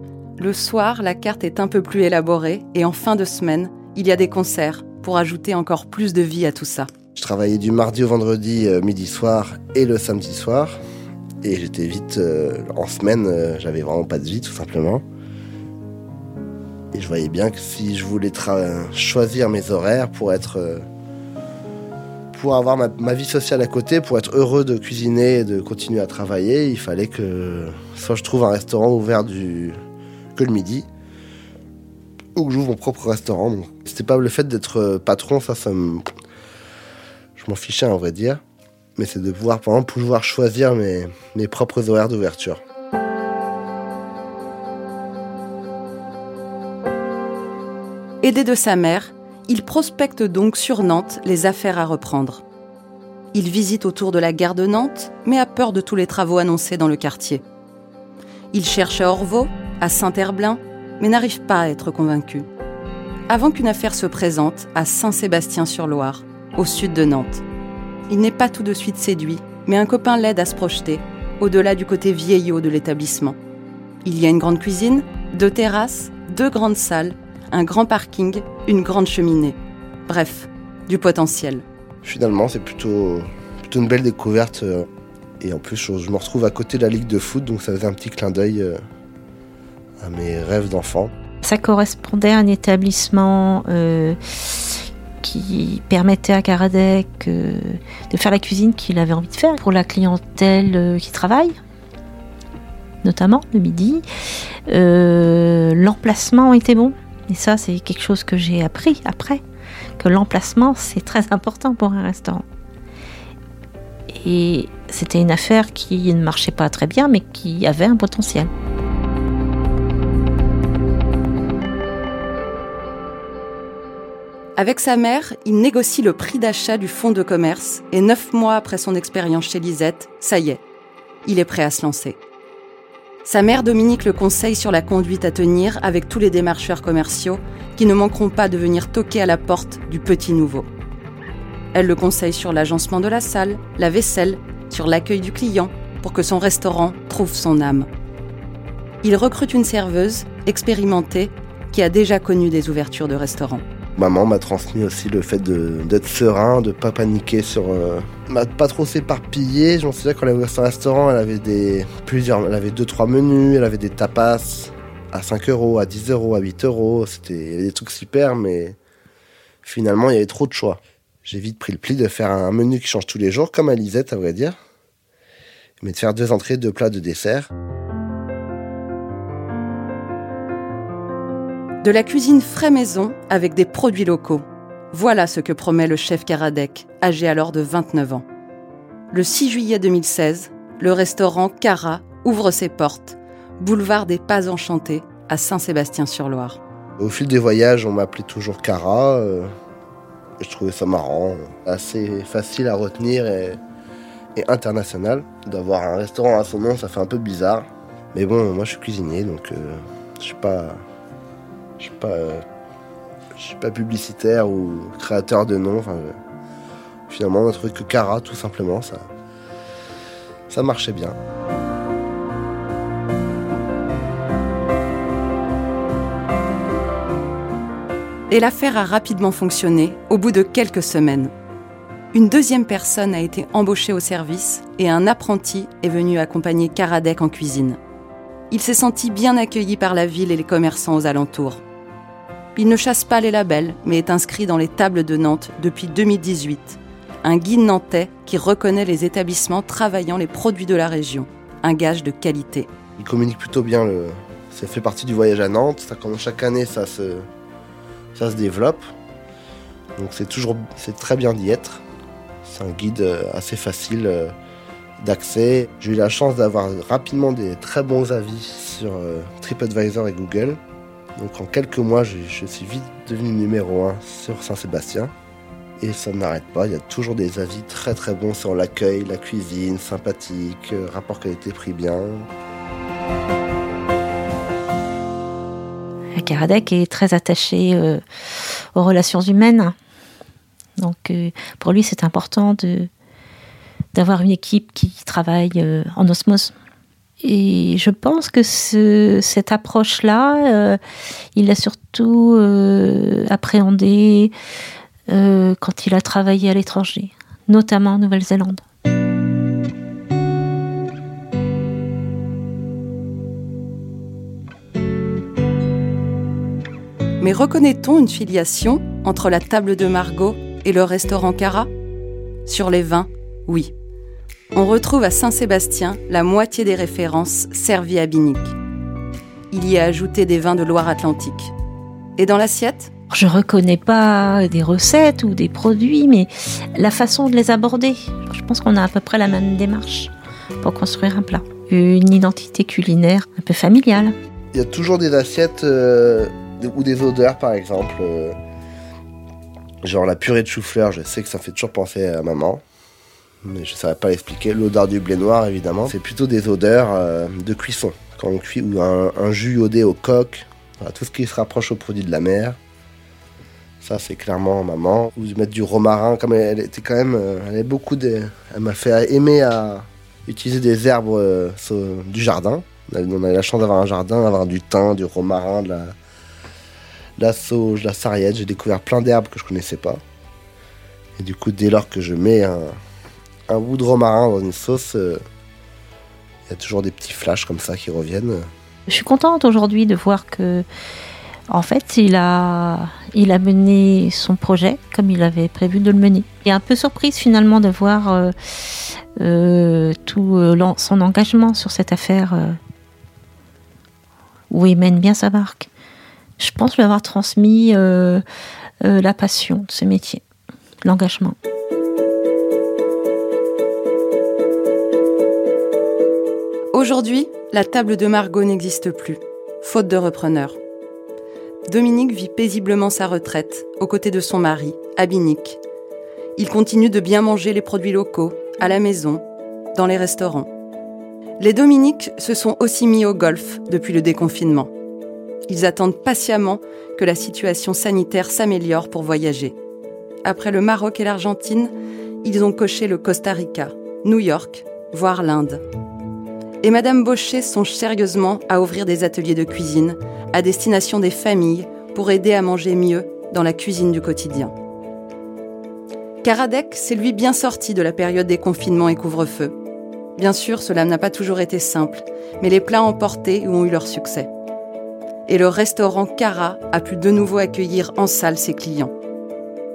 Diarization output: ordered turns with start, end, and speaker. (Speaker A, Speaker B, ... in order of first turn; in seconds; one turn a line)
Speaker A: 0.4-6.9
Speaker B: 7.1-10.8
Speaker B: 11.4-15.0
Speaker B: 16.9-20.9
Speaker B: 22.3-29.8
Speaker B: 30.3-30.9
Speaker B: 32.3-36.1
Speaker B: 37.4-38.4
Speaker B: 39.0-42.6
Speaker A: 48.2-52.4
Speaker A: 53.3-57.4
Speaker A: 58.5-62.5
Speaker A: 63.3-67.4
Speaker A: 68.1-73.4
Speaker A: 74.0-81.6
Speaker B: 82.0-84.9
Speaker B: 85.4-88.8
Speaker B: 90.0-91.1
Speaker C: 91.4-101.5
Speaker C: 103.0-104.0
Speaker C: 104.7-109.4
Speaker C: 110.0-112.4
Speaker C: 114.2-118.5
Speaker A: 124.5-130.6
Speaker A: 131.2-132.2
Speaker A: 133.2-140.7
Speaker A: 141.7-147.9
Speaker A: 149.0-153.6
Speaker B: 154.0-168.8
Speaker B: 169.6-174.6
Speaker B: 175.8-177.5
Speaker A: 181.8-188.2
Speaker A: 189.1-196.6
Speaker B: 197.0-199.5
Speaker B: 200.4-203.6
Speaker B: 204.3-210.8
Speaker B: 211.8-212.4
Speaker B: 213.3-216.2
Speaker B: 217.1-219.1
Speaker B: 220.5-221.2
Speaker A: 228.3-231.3
Speaker A: 232.1-237.8
Speaker A: 238.5-241.6
Speaker A: 242.6-252.7
Speaker B: 253.0-257.3
Speaker B: 258.1-258.9
Speaker B: 259.9-261.8
Speaker B: 262.4-264.3
Speaker B: 265.0-270.6
Speaker B: 271.2-275.1
Speaker B: 275.8-282.3
Speaker C: 286.1-289.7
Speaker C: 290.8-292.9
Speaker C: 293.9-296.5
Speaker C: 297.2-300.8
Speaker C: 301.3-304.3
Speaker C: 305.1-308.6
Speaker A: 317.2-321.7
Speaker A: 322.4-323.7
Speaker A: 324.5-328.5
Speaker A: 329.5-331.5
Speaker A: 332.2-332.9
Speaker C: 333.1-344.1
Speaker B: 344.5-348.4
Speaker B: 349.8-352.6
Speaker B: 353.4-362.6
Speaker B: 363.8-375.9
Speaker B: 377.2-380.0
Speaker B: 381.2-382.8
Speaker B: 383.5-385.2
Speaker B: 386.5-388.5
Speaker C: 388.9-390.6
Speaker C: 391.5-402.6
Speaker C: 404.5-405.7
Speaker C: 406.4-408.2
Speaker C: 408.8-410.2
Speaker C: 410.8-411.4
Speaker A: 416.7-420.6
Speaker A: 421.7-425.6
Speaker A: 426.4-430.5
Speaker A: 431.4-434.7
Speaker A: 435.5-439.5
Speaker A: 440.2-445.6
Speaker A: 446.6-454.5
Speaker A: 456.2-459.5
Speaker A: 460.2-464.3
Speaker A: 465.3-468.9